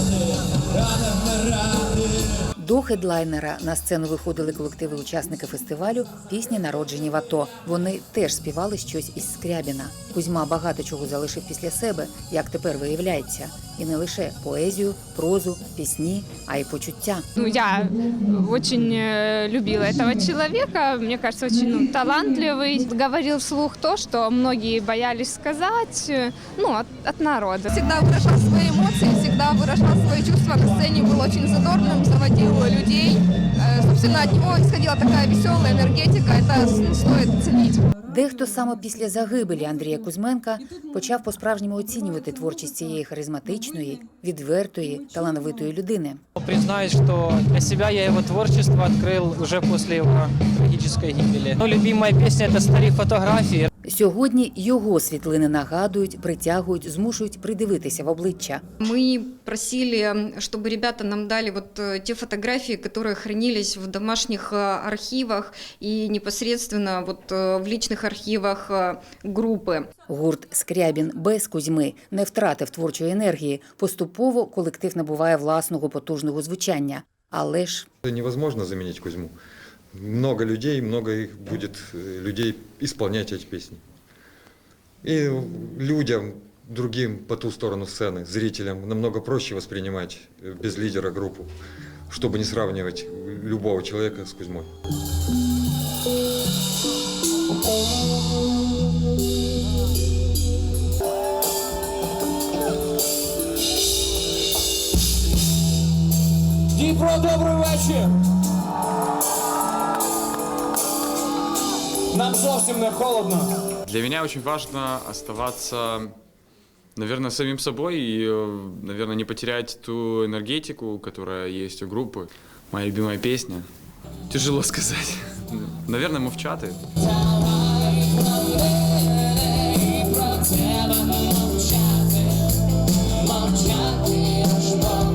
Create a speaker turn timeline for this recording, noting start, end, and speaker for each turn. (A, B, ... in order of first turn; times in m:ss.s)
0:02.6-0:17.2 A
0:17.4-0:27.8 B
0:27.7-0:37.9 C
0:38.0-0:46.2 A
0:46.4-0:53.7 D
0:53.8-0:58.6 A
0:58.8-1:09.9 E
1:10.1-1:17.9 A
1:18.0-1:19.3 F
1:20.0-1:23.8 F
1:25.0-1:31.5 F
1:32.1-1:34.7 F
1:46.7-1:48.1 G
1:52.1-1:53.6 G
1:53.9-1:56.1 H
1:57.0-2:03.7 H
2:04.3-2:06.8 H